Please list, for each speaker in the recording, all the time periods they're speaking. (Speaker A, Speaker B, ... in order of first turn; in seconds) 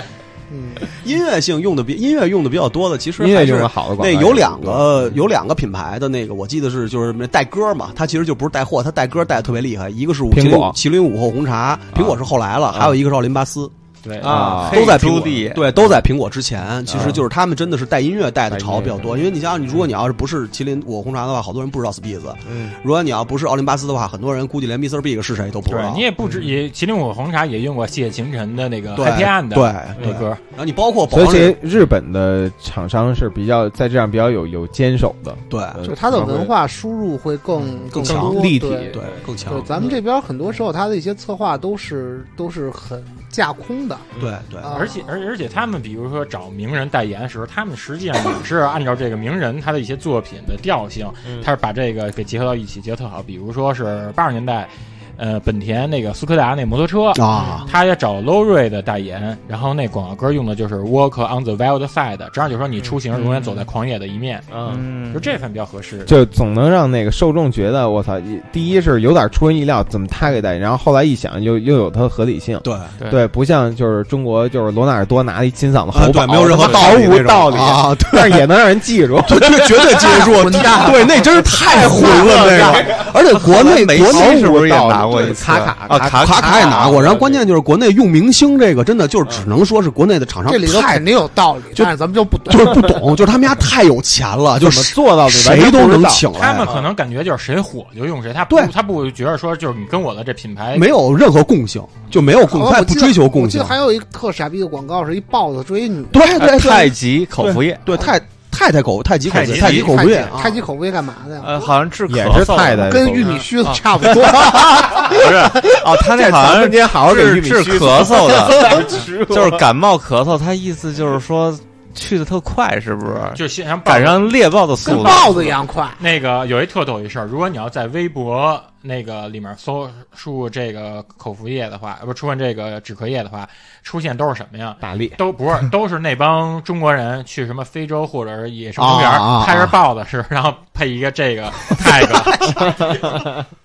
Speaker A: 0.5-0.8, 35.8-44.1, 44.6-45.1, 80.0-83.0, 90.5-92.9, 102.4-106.2, 109.4-111.7, 112.7-115.3, 124.8-126.0
Speaker B: 0.9-13.7, 14.3-26.1, 28.9-31.6, 35.5-36.2, 37.7-39.7, 44.2-44.7, 57.1-57.7, 72.6-72.9, 75.9-78.5, 79.2-84.5, 86.0-91.0, 92.5-96.7, 100.7-103.7, 106.1-110.6, 138.8-139.8, 141.8-142.6
Speaker C: 3.2-5.2, 10.3-10.7, 11.9-12.2, 12.7-13.0, 14.2-15.0, 16.9-17.2, 18.5-19.3, 22.4-22.8, 26.2-26.5, 30.0-30.2, 31.1-36.5, 37.9-39.9, 51.2-51.5, 64.5-64.8, 66.1-80.8, 81.5-87.5, 94.6-96.9, 112.1-113.5, 114.0-119.7, 134.8-135.2
Speaker D: 14.0-14.6, 25.6-30.4, 44.7-64.5, 65.1-66.1, 96.3-101.0, 109.3-109.9, 115.1-115.6, 123.3-124.3, 124.8-143.3
Speaker E: 14.2-15.8, 63.1-63.6, 64.6-65.4, 73.0-73.2, 76.5-77.2, 83.3-87.0, 106.3-107.9, 109.3-109.8, 111.4-113.0, 115.5-125.5